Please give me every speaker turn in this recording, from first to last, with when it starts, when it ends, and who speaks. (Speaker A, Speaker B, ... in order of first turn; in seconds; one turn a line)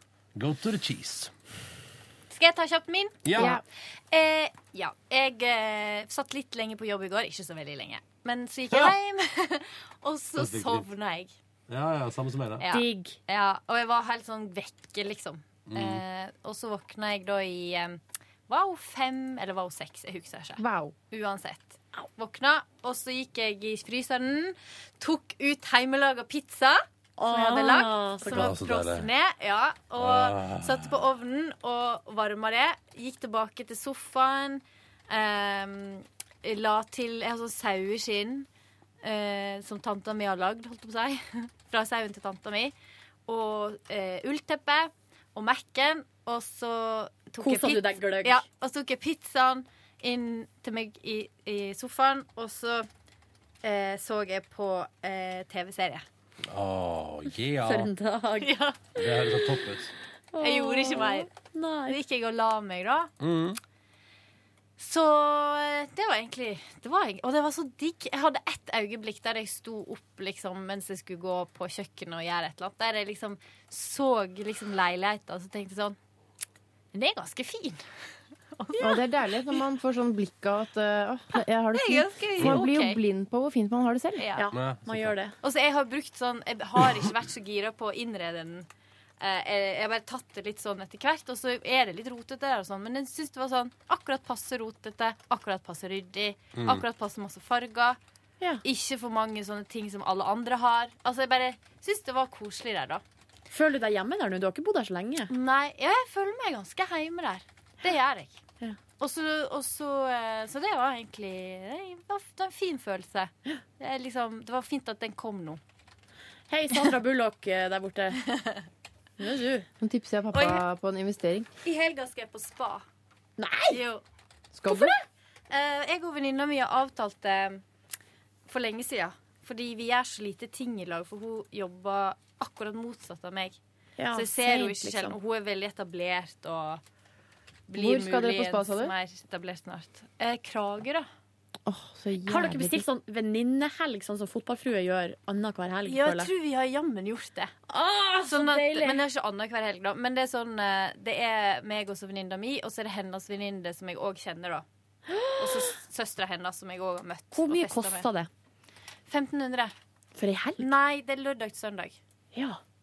Speaker A: 0.3-1.3
Speaker B: 2.3-3.2
Speaker A: 3.2-3.6
Speaker C: 3.3-3.6
Speaker B: 4.1-11.3
Speaker A: 8.7-8.9
Speaker A: 10.4-10.8
Speaker A: 11.7-12.6
Speaker B: 12.6-38.5
Speaker D: 12.7-13.2
Speaker A: 15.7-16.0
Speaker C: 20.6-20.9
Speaker D: 27.2-28.5
Speaker A: 28.3-29.1
Speaker A: 30.0-30.9
Speaker B: 39.0-42.7
Speaker B: 43.3-52.9
Speaker D: 47.4-48.4
Speaker B: 53.6-56.0
Speaker A: 56.5-57.9
Speaker D: 57.6-58.5
Speaker B: 58.4-58.9
Speaker A: 58.9-59.9
Speaker D: 60.3-62.0
Speaker B: 60.4-61.3
Speaker B: 61.9-63.1
Speaker A: 63.2-63.6
Speaker B: 64.8-76.0
Speaker B: 76.9-77.8
Speaker B: 78.5-79.1
Speaker C: 78.8-84.2
Speaker B: 81.7-83.0
Speaker B: 84.2-84.5
Speaker D: 84.3-85.3
Speaker A: 84.5-85.1
Speaker B: 85.4-88.7
Speaker B: 89.2-98.0
Speaker A: 96.5-96.8
Speaker B: 98.6-103.0
Speaker D: 103.5-105.3
Speaker B: 105.3-108.4
Speaker B: 109.0-115.6
Speaker D: 116.5-118.3
Speaker D: 119.2-119.7
Speaker C: 119.8-121.5
Speaker B: 120.3-120.6
Speaker B: 121.6-122.8
Speaker D: 123.4-123.8
Speaker B: 123.7-124.0
Speaker C: 124.5-125.0
Speaker B: 124.7-125.0
Speaker B: 125.5-127.6
Speaker B: 128.5-133.6
Speaker D: 134.0-135.2
Speaker B: 134.1-136.8
Speaker B: 137.7-141.1
Speaker C: 137.8-138.9
Speaker C: 141.7-142.8
Speaker D: 142.3-146.3
Speaker B: 145.8-147.5
Speaker D: 147.7-149.0
Speaker B: 148.2-154.6
Speaker D: 155.1-155.7
Speaker B: 155.4-158.1
Speaker D: 157.3-158.3
Speaker B: 159.1-159.7
Speaker D: 160.2-160.7
Speaker B: 160.6-162.0
Speaker D: 162.3-162.6